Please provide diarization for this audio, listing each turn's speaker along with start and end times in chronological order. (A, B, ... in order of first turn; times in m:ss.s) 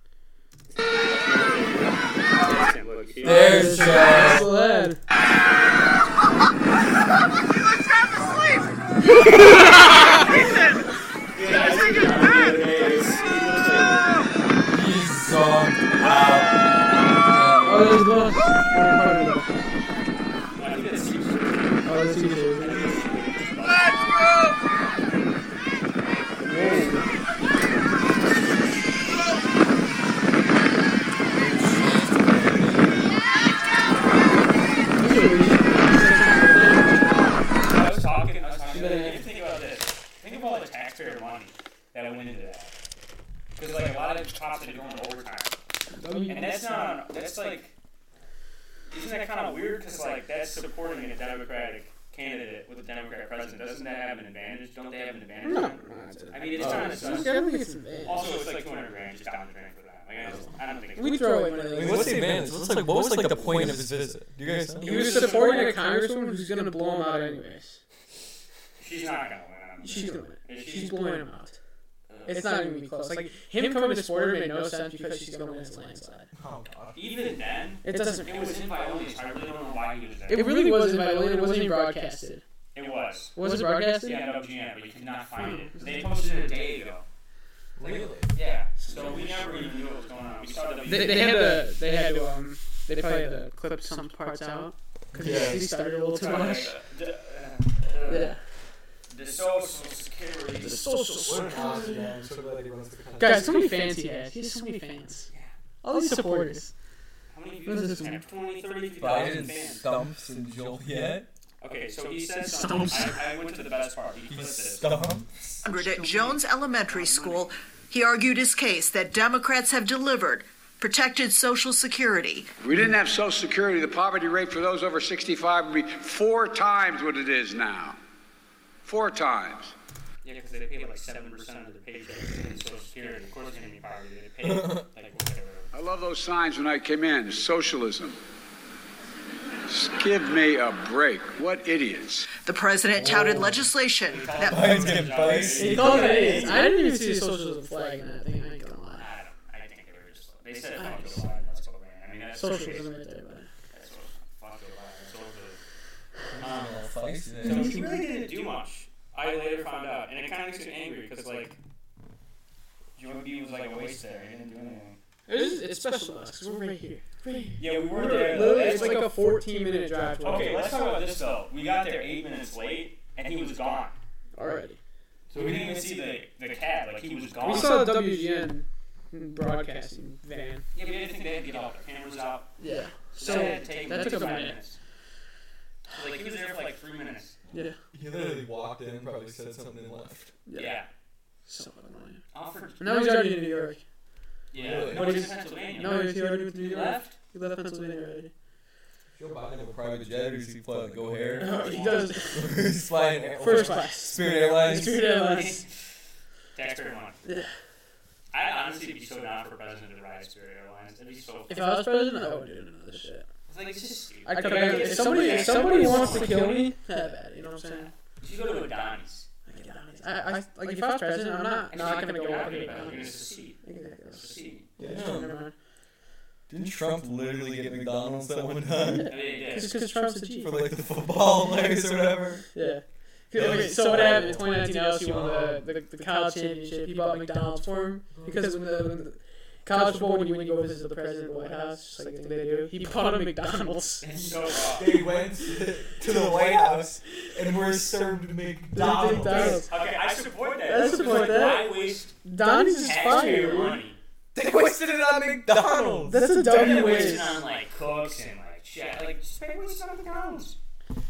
0:01.1-0:04.0 A
0:03.2-0:04.5 B
0:03.2-0:05.0 C
0:09.2-0:09.4 C
0:09.3-0:10.7 A
0:11.3-0:14.2 A
0:14.6-0:16.6 B
0:17.2-0:18.1 B
0:17.6-0:19.8 C
0:20.6-0:21.9 A
0:21.8-0:22.8 C
0:22.6-0:24.5 A
0:26.4-0:27.1 C
0:26.4-0:27.1 A
0:31.3-0:33.1 B
0:35.0-0:37.3 C
0:37.6-0:42.7 A
0:38.7-0:39.2 C
0:43.6-0:45.6 A
0:45.9-0:46.9 C
0:46.3-0:47.7 A
0:48.9-0:57.4 A
0:55.4-0:58.4 C
0:56.6-0:57.3 B
0:58.0-1:02.0 A
1:00.3-1:03.7 C
1:01.7-1:05.2 B
1:04.8-1:05.8 A
1:04.8-1:07.8 C
1:08.8-1:11.0 A
1:09.8-1:11.6 C
1:12.1-1:12.6 A
1:12.2-1:16.3 C
1:16.3-1:17.1 B
1:16.9-1:20.8 A
1:17.8-1:18.6 C
1:20.3-1:22.4 C
1:22.7-1:27.0 A
1:23.3-1:24.2 C
1:25.4-1:26.1 C
1:27.8-1:28.3 B
1:28.3-1:31.6 A
1:30.8-1:36.7 C
1:35.1-1:35.7 B
1:36.0-1:38.4 A
1:38.0-1:38.4 C
1:39.1-1:41.3 A
1:40.6-1:42.0 C
1:41.2-1:43.8 B
1:43.2-1:45.3 C
1:45.8-1:46.7 C
1:47.3-1:49.9 A
1:47.6-1:48.2 C
1:49.0-1:51.3 B
1:51.6-1:54.9 A
1:52.4-1:53.1 C
1:54.3-1:55.3 B
1:55.6-2:02.5 D
1:57.0-1:57.4 A
2:02.6-2:08.0 E
2:08.8-2:09.7 E
2:10.2-2:15.7 A
2:14.4-2:14.8 B
2:15.7-2:18.2 E
2:19.7-2:22.3 E
2:22.4-2:24.9 D
2:22.9-2:23.6 B
2:24.0-2:26.6 A
2:24.4-2:26.6 B
2:25.5-2:29.0 C
2:29.0-2:32.9 A
2:30.8-2:31.3 C
2:32.3-2:33.5 C
2:33.7-2:35.6 A
2:36.3-2:37.8 B
2:36.4-2:36.8 A
2:37.4-2:41.6 A
2:37.4-2:38.0 C
2:43.0-2:45.0 A
2:45.3-2:50.7 C
2:47.6-2:49.1 A
2:50.2-2:54.0 A
2:54.3-2:54.8 C
2:55.3-2:58.1 A
2:55.3-2:55.8 B
2:57.4-3:00.6 C
3:00.7-3:02.5 A
3:02.6-3:04.6 C
3:03.1-3:04.8 A
3:05.9-3:07.4 A
3:07.5-3:07.8 C
3:07.9-3:10.3 B
3:10.5-3:10.8 C
3:10.5-3:10.9 A
3:11.4-3:12.2 C
3:12.3-3:13.2 A
3:12.8-3:13.8 C
3:14.5-3:17.1 A
3:14.6-3:15.3 B
3:14.9-3:18.3 C
3:19.1-3:25.1 B
3:21.4-3:22.2 A
3:21.4-3:22.5 C
3:23.4-3:25.6 C
3:23.5-3:23.8 A
3:24.6-3:25.8 A
3:26.5-3:27.3 A
3:27.2-3:27.5 C
3:28.3-3:31.7 A
3:31.5-3:33.3 C
3:33.5-3:36.7 A
3:34.2-3:37.9 C
3:38.2-3:39.3 A
3:39.4-3:45.5 C
3:41.7-3:43.6 A
3:44.1-3:44.7 A
3:44.8-3:45.4 B
3:46.5-3:49.6 B
3:48.9-3:50.6 C
3:49.0-3:49.7 A
3:50.4-3:52.6 B
3:52.5-4:04.0 C
3:53.3-3:55.6 B
3:53.8-3:54.4 A
3:58.1-3:58.5 B
4:04.0-4:04.9 A
4:04.7-4:09.7 B
4:08.7-4:09.7 C
4:09.2-4:14.0 A
4:10.7-4:13.8 C
4:10.8-4:11.4 B
4:14.3-4:17.1 B
4:16.0-4:17.3 C
4:16.4-4:20.6 A